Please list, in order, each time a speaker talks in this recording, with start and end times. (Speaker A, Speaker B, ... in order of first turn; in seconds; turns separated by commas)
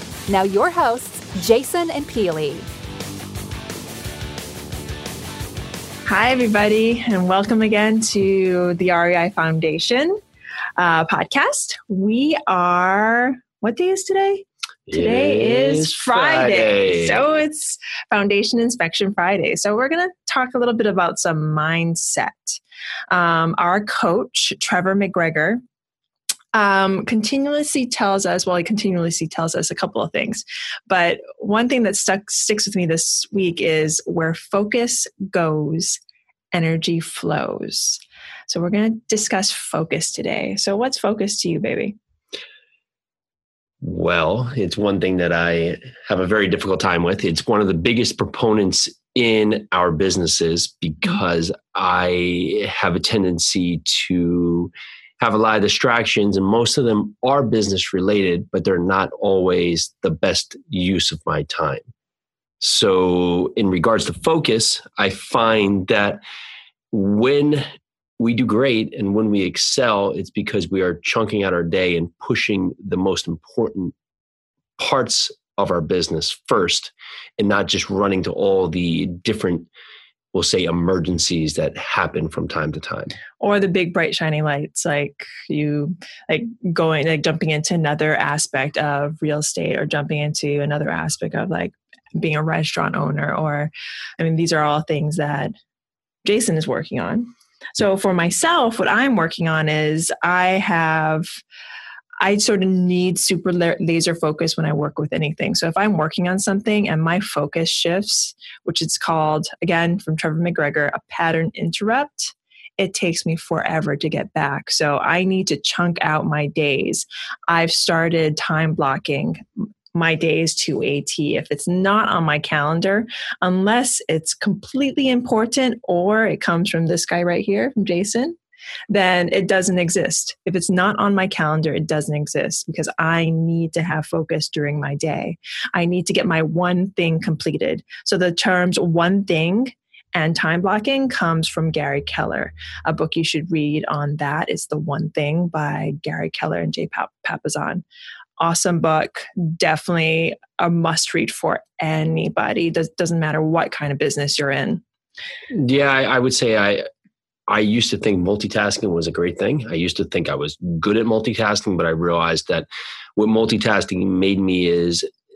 Speaker A: 0.3-2.6, Speaker B: 6.0-10.2, Speaker B: 10.8-22.6, Speaker C: 14.9-17.2, Speaker B: 23.1-25.6, Speaker B: 26.5-36.0, Speaker B: 36.5-42.0, Speaker C: 43.8-61.9, Speaker C: 62.6-66.2, Speaker C: 66.9-67.6, Speaker C: 68.2-73.9, Speaker C: 74.8-79.7, Speaker C: 80.3-83.2, Speaker B: 83.4-95.5, Speaker B: 96.2-101.3, Speaker B: 102.2-128.4, Speaker B: 128.9-147.8, Speaker B: 148.4-154.8, Speaker C: 155.5-156.8, Speaker C: 157.5-165.0